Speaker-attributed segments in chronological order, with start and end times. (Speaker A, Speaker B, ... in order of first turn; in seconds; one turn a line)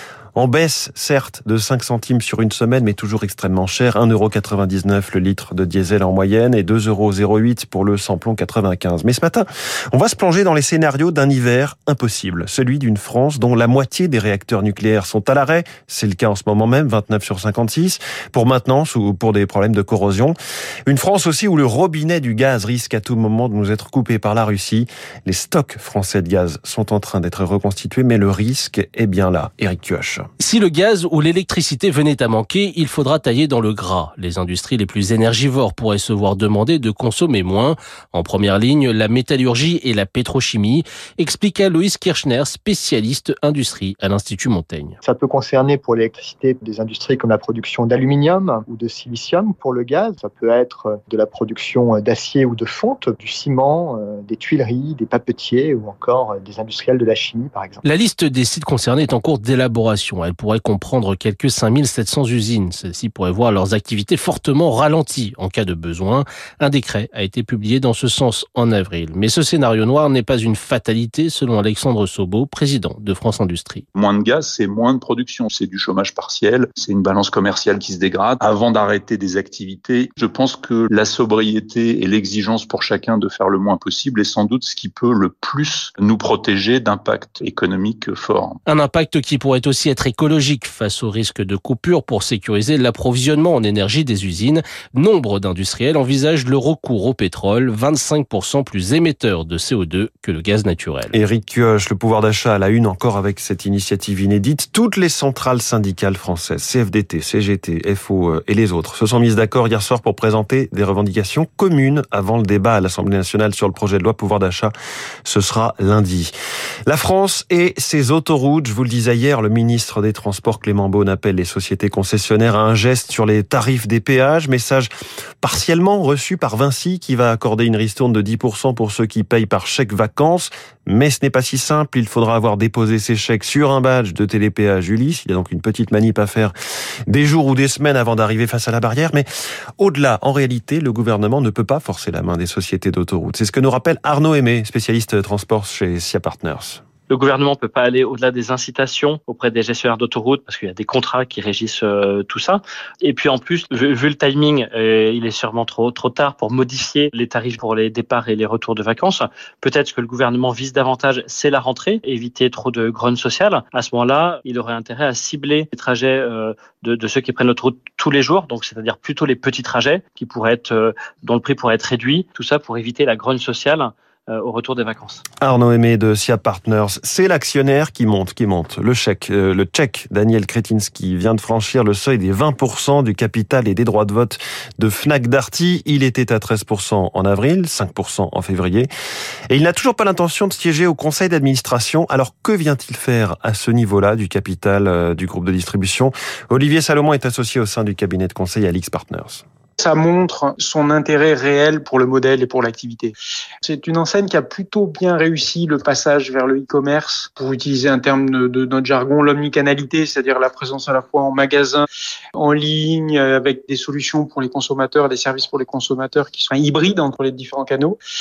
Speaker A: 0.3-30.3
Speaker B: 30.4-45.0
Speaker C: 45.0-57.8
Speaker B: 57.8-73.8
Speaker D: 74.0-88.5
Speaker B: 88.7-101.1
Speaker A: 101.1-114.7
Speaker A: 115.2-116.3
Speaker A: 116.8-124.9
Speaker A: 125.4-136.5
Speaker A: 137.1-139.3
Speaker A: 139.8-146.8
Speaker E: 147.1-175.2
Speaker A: 175.4-188.9
Speaker A: 189.5-199.4
Speaker F: 199.8-218.0